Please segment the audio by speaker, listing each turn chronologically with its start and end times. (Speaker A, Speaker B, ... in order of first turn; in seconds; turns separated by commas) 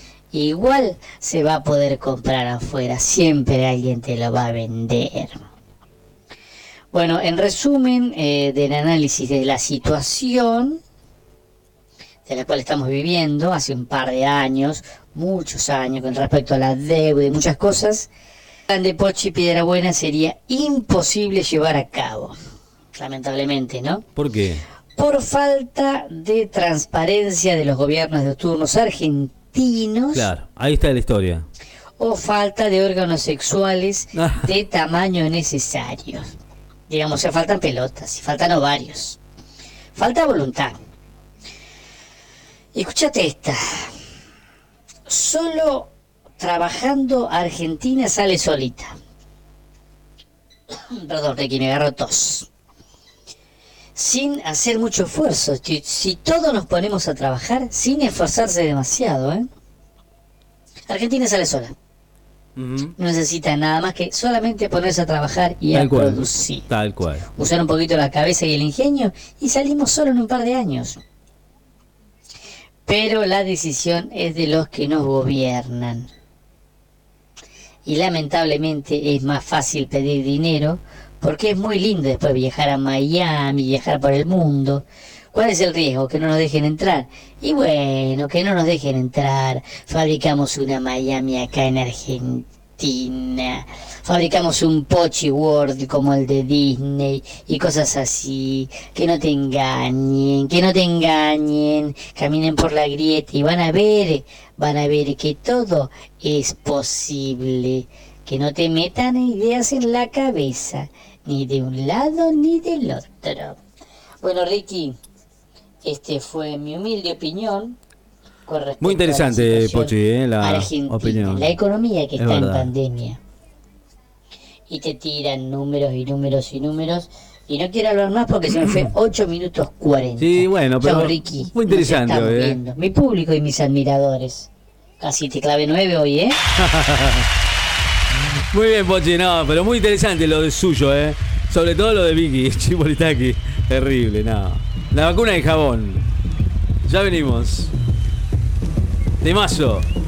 Speaker A: 0.3-5.4, Speaker A: 6.9-10.8, Speaker A: 12.2-18.1, Speaker A: 18.7-22.3, Speaker A: 22.9-24.0, Speaker B: 24.1-24.6, Speaker A: 24.9-30.3, Speaker B: 30.1-31.4, Speaker A: 32.0-36.3, Speaker B: 34.1-34.5, Speaker A: 36.9-39.2, Speaker A: 39.9-40.8, Speaker A: 42.7-44.0, Speaker A: 45.0-48.9, Speaker A: 50.7-52.5, Speaker A: 53.9-59.5, Speaker A: 60.9-61.7, Speaker B: 62.6-62.9, Speaker A: 63.0-66.7, Speaker B: 65.7-67.2, Speaker A: 67.3-71.0, Speaker A: 72.8-76.1, Speaker A: 77.8-113.6, Speaker A: 114.2-115.0, Speaker A: 115.8-117.8, Speaker A: 118.5-123.2, Speaker B: 118.8-121.5, Speaker B: 122.2-122.7, Speaker A: 124.7-136.4, Speaker B: 128.5-128.9, Speaker B: 130.2-132.6, Speaker B: 136.6-137.3, Speaker B: 138.5-146.1, Speaker B: 146.8-147.7, Speaker B: 149.2-149.9